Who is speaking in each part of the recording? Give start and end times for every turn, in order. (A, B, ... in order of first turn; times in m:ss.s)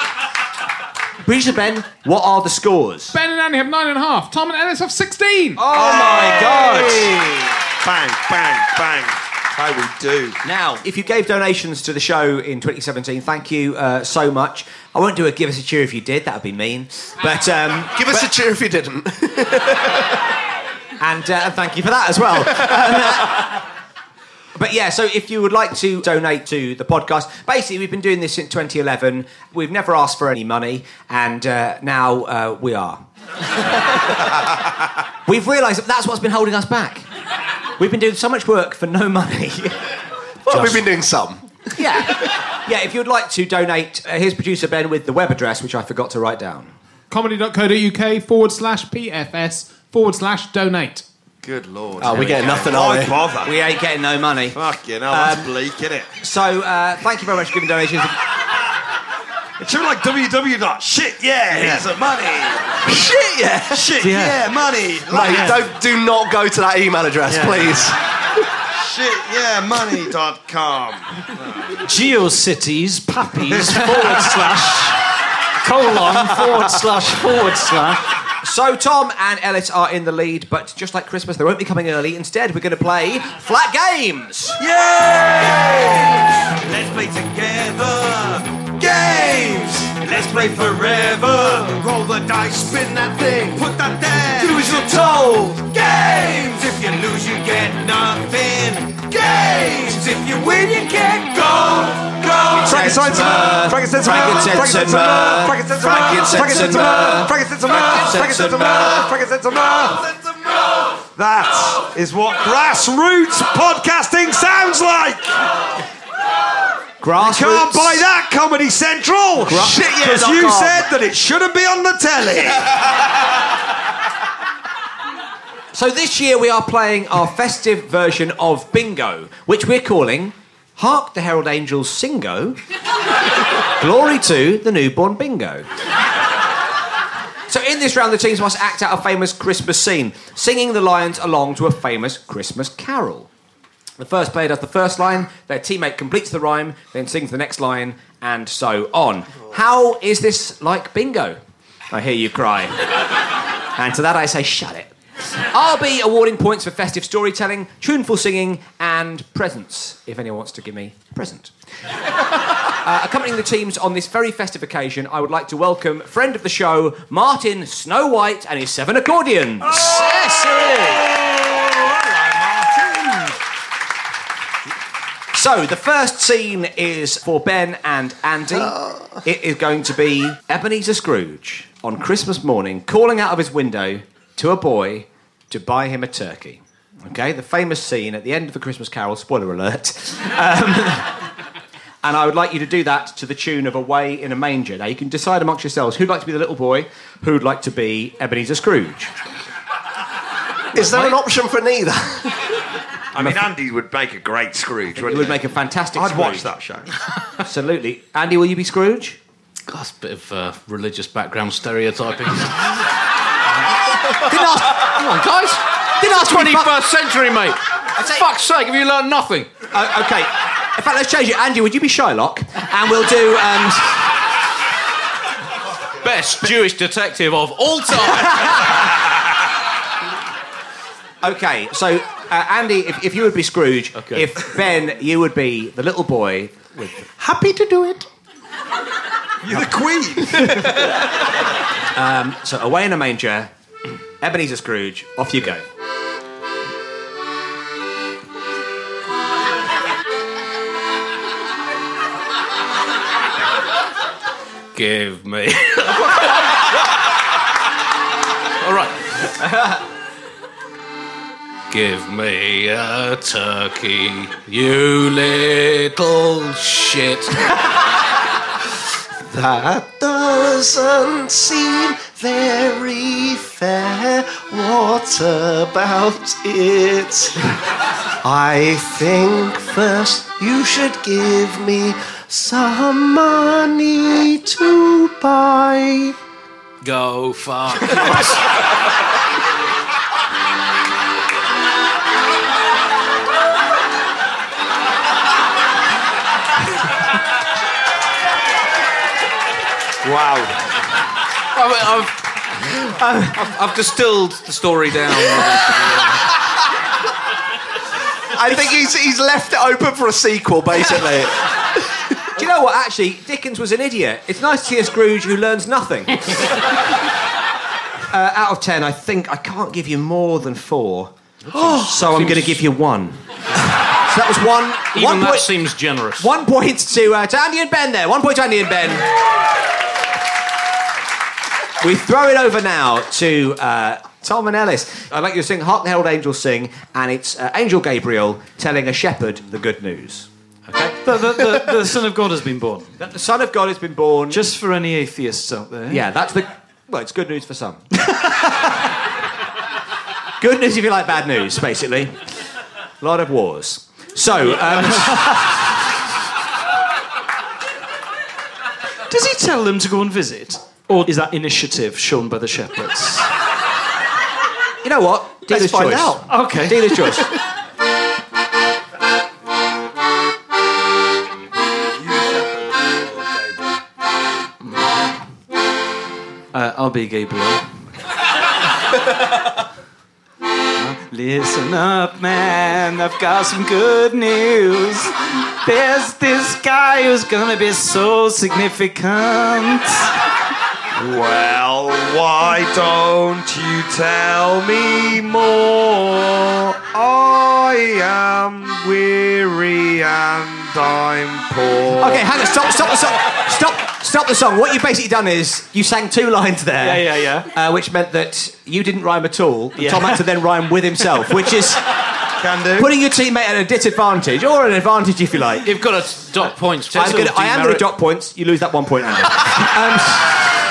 0:01.2-0:03.1 A
0:03.1-0:05.6 B
0:05.6-0:07.4 A
0:05.6-0:10.4 C
0:10.4-0:18.3 A
0:17.9-0:20.1 D
0:21.0-0:23.5 A
0:24.6-0:33.0 A
0:35.2-0:37.0 A
0:37.8-0:39.8 A
0:40.4-0:41.4 D
0:41.8-0:46.7 A
0:47.1-0:51.0 B
0:51.4-0:53.5 C
0:52.0-0:53.2 D
0:53.4-0:55.5 A
0:54.5-0:56.1 C
0:56.2-0:58.2 A
0:59.6-1:02.9 C
1:01.5-1:01.9 E
1:02.9-1:03.9 D
1:03.6-1:05.6 C
1:03.9-1:04.5 E
1:05.1-1:08.0 D
1:05.2-1:05.6 E
1:07.2-1:07.8 E
1:08.8-1:11.7 C
1:11.8-1:15.0 E
1:13.6-1:14.3 C
1:15.6-1:18.1 E
1:18.4-1:24.6 A
1:24.6-1:31.8 C
1:26.7-1:27.9 F
1:30.0-1:42.6 F
1:33.6-1:35.0 C
1:34.5-1:34.7 D
1:39.0-1:39.5 C
1:42.5-1:50.1 C
1:42.6-1:49.1 A
1:46.2-1:46.6 D
1:51.1-1:55.4 C
1:57.0-1:58.1 A
1:57.2-2:02.7 C
1:59.4-2:00.9 D
2:05.7-2:12.6 A
2:13.8-2:15.7 A
2:17.5-2:23.3 A
2:24.0-2:31.4 A
2:31.9-2:32.8 A
2:33.7-2:34.9 A
2:35.5-2:41.5 A
2:42.7-2:51.0 A
2:52.7-2:53.0 C
2:55.3-3:11.2 A
3:12.0-3:19.1 A
3:20.7-3:22.4 D
3:20.8-3:21.1 A
3:23.1-3:25.4 C
3:23.2-3:23.4 A
3:24.9-3:26.5 A
3:25.9-3:26.9 C
3:27.4-3:29.2 A
3:29.7-3:32.8 G
3:34.2-3:35.0 A
3:34.7-3:39.5 G
3:36.0-3:36.7 A
3:38.0-3:38.2 A
3:39.7-3:44.1 A
3:46.0-3:48.9 G
3:51.2-3:57.1 A
3:54.0-3:54.3 G
3:57.2-3:58.0 D
3:59.4-4:00.9 C
4:01.9-4:03.5 A
4:04.2-4:05.6 A
4:14.7-4:16.7 G
4:18.6-4:19.3 G
4:21.7-4:27.5 G
4:29.3-4:37.4 D
4:38.2-4:46.1 D
4:46.8-4:48.5 G
5:00.0-5:00.5 C
5:01.5-5:06.2 G
5:03.0-5:03.3 A
5:08.3-5:11.7 D
5:12.4-5:16.6 A
5:18.1-5:23.2 A
5:21.5-5:22.6 G
5:24.0-5:25.5 A
5:24.9-5:26.3 G
5:26.2-5:29.1 A
5:31.8-5:41.0 A
5:41.0-5:42.9 E
5:43.0-5:44.4 A
5:44.3-5:46.0 E
5:45.9-5:47.8 A
5:50.4-5:52.2 A
5:53.0-5:55.6 A
5:55.0-5:55.4 E
5:59.1-6:03.3 E
6:04.8-6:07.3 A
6:05.5-6:06.2 D
6:06.2-6:07.3 E
6:12.0-6:13.6 C
6:16.5-6:17.6 E
6:20.8-6:30.1 E
6:30.9-6:42.3 C
6:42.0-6:51.8 A
6:46.8-6:47.5 E
6:49.8-6:50.2 E
6:52.4-6:52.9 C
6:52.7-6:55.7 A
6:55.6-6:57.8 G
6:56.9-7:00.5 A